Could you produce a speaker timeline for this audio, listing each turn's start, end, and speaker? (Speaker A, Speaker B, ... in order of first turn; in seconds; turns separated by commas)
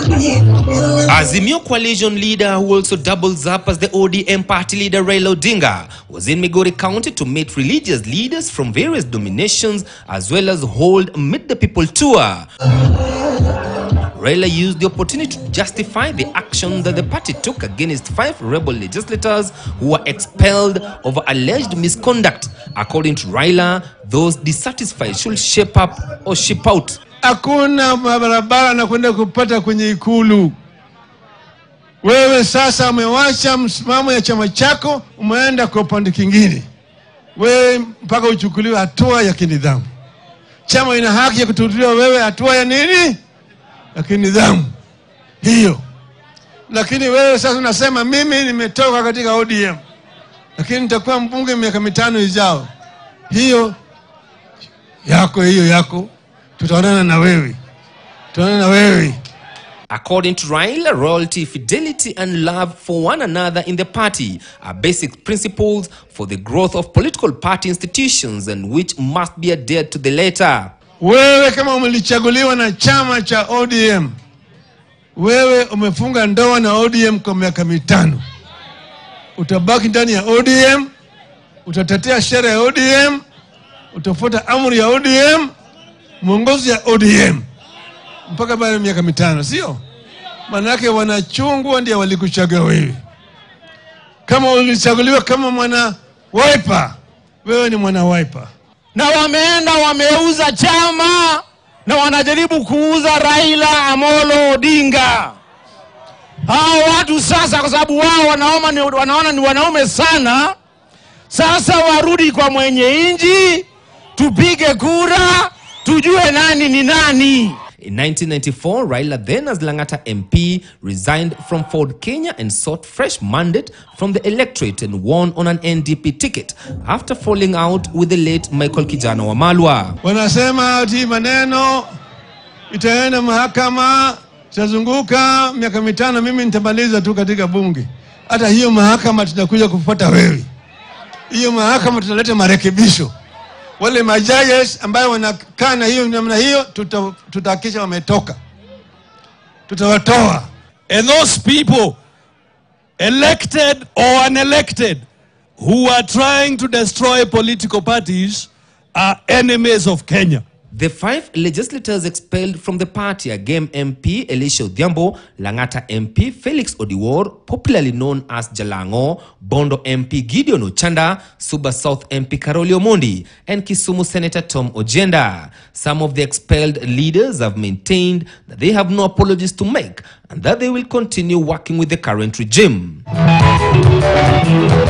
Speaker A: 0.9-12.5, Speaker A: 14.1-27.0, Speaker B: 27.2-30.5, Speaker B: 32.0-36.6, Speaker B: 37.4-39.9, Speaker B: 40.7-43.2, Speaker B: 44.0-44.7, Speaker B: 45.4-45.8, Speaker B: 46.7-49.8, Speaker B: 50.6-52.7, Speaker B: 53.3-53.8, Speaker B: 55.0-57.6, Speaker B: 58.3-59.2, Speaker A: 59.9-70.7, Speaker B: 71.0-74.1, Speaker B: 75.2-78.2, Speaker B: 79.4-80.9, Speaker B: 81.7-83.2, Speaker B: 83.9-85.5, Speaker B: 86.2-87.4, Speaker B: 88.3-89.8, Speaker B: 90.5-93.0, Speaker B: 94.3-98.5, Speaker C: 99.0-105.4, Speaker C: 106.5-110.5, Speaker C: 111.3-113.6, Speaker C: 114.2-117.6, Speaker A: 117.8-130.0, Speaker B: 130.0-131.9, Speaker B: 132.7-140.5, Speaker B: 141.3-143.1, Speaker B: 143.8-148.4, Speaker B: 149.7-150.5, Speaker D: 150.9-152.0, Speaker D: 153.0-155.1, Speaker D: 155.6-160.4, Speaker A: 160.7-183.0